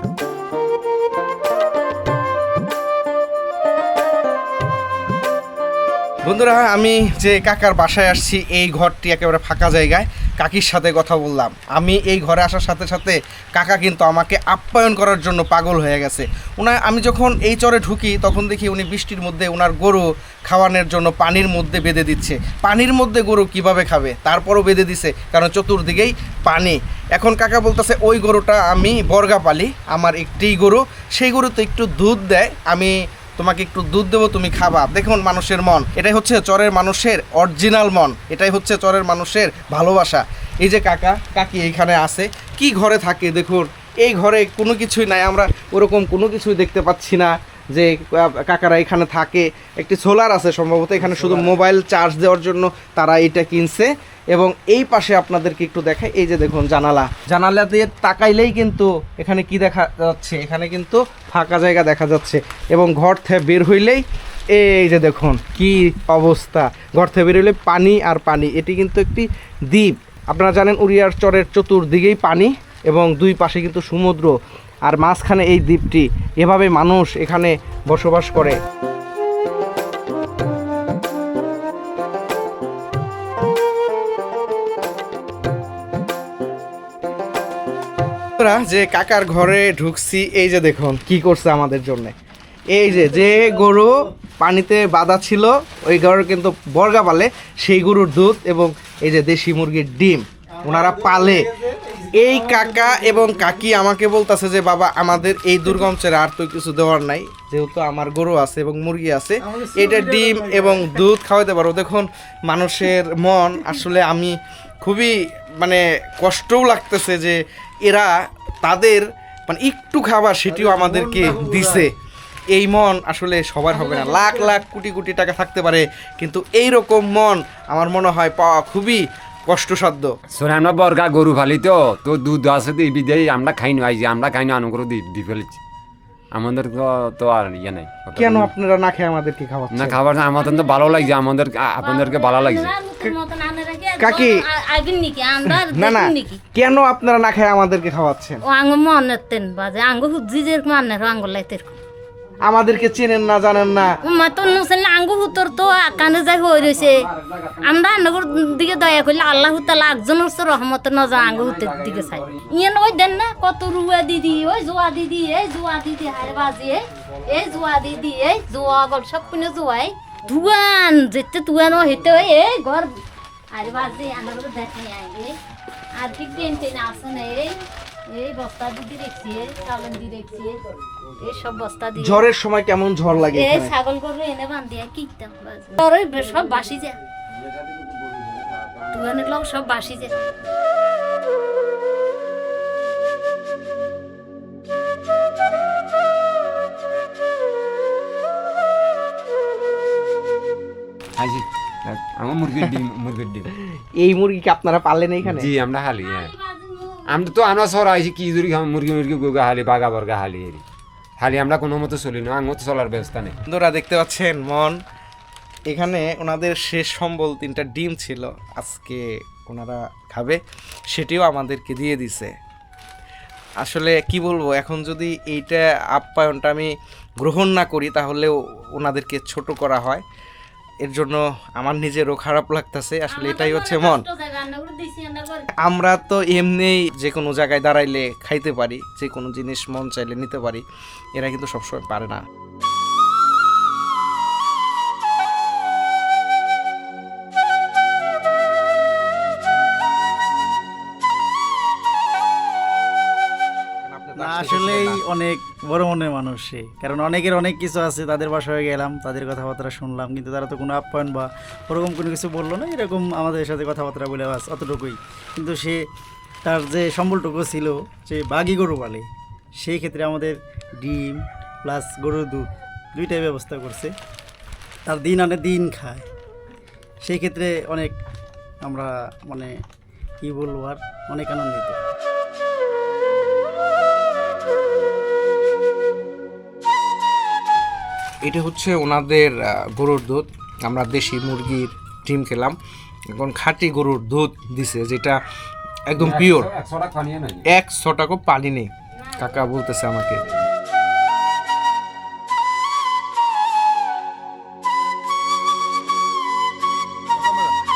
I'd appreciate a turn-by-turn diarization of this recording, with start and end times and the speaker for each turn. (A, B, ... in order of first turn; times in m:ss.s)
0:06.2-1:18.6 A
1:28.4-1:32.1 A
1:32.7-1:41.5 A
1:41.6-1:42.1 B
1:42.1-2:01.9 A
1:49.6-1:50.8 B
2:02.5-2:10.1 A
2:10.3-2:15.6 C
2:16.3-2:18.5 C
2:18.2-2:20.0 A
2:19.7-2:22.7 C
2:20.4-2:21.1 D
2:21.8-2:26.4 D
2:24.0-2:24.4 A
2:25.5-2:28.4 A
2:28.5-2:31.8 D
2:32.4-2:34.0 A
2:34.0-2:37.0 D
2:36.8-2:37.6 C
2:37.6-2:53.0 D
2:38.8-2:39.5 C
2:41.0-2:42.5 C
2:53.5-2:55.4 D
2:56.0-2:57.6 D
2:58.1-3:00.6 D
3:01.2-3:02.2 D
3:02.0-3:03.7 A
3:03.3-3:07.0 D
3:07.3-3:09.3 C
3:08.9-3:10.1 D
3:21.2-3:23.5 C
3:24.0-3:25.5 A
3:25.2-3:26.3 C
3:26.1-3:27.0 D
3:27.1-3:30.6 C
3:31.2-3:33.4 C
3:33.5-3:34.8 A
3:35.7-3:42.3 A
3:43.6-3:50.0 A
3:50.8-3:54.0 A
3:53.1-3:55.5 D
3:55.6-4:00.6 A
4:01.2-4:02.2 A
4:13.8-4:15.0 A
4:14.2-4:25.8 B
4:26.4-4:29.1 B
4:29.6-4:33.9 B
4:34.9-4:36.1 B
4:37.0-4:38.0 B
4:38.6-4:39.5 B
4:40.2-4:41.8 B
4:48.2-4:52.6 A
4:53.1-4:55.2 A
4:55.9-4:56.5 A
4:56.0-4:57.4 C
4:57.5-5:00.4 A
5:07.2-5:07.5 A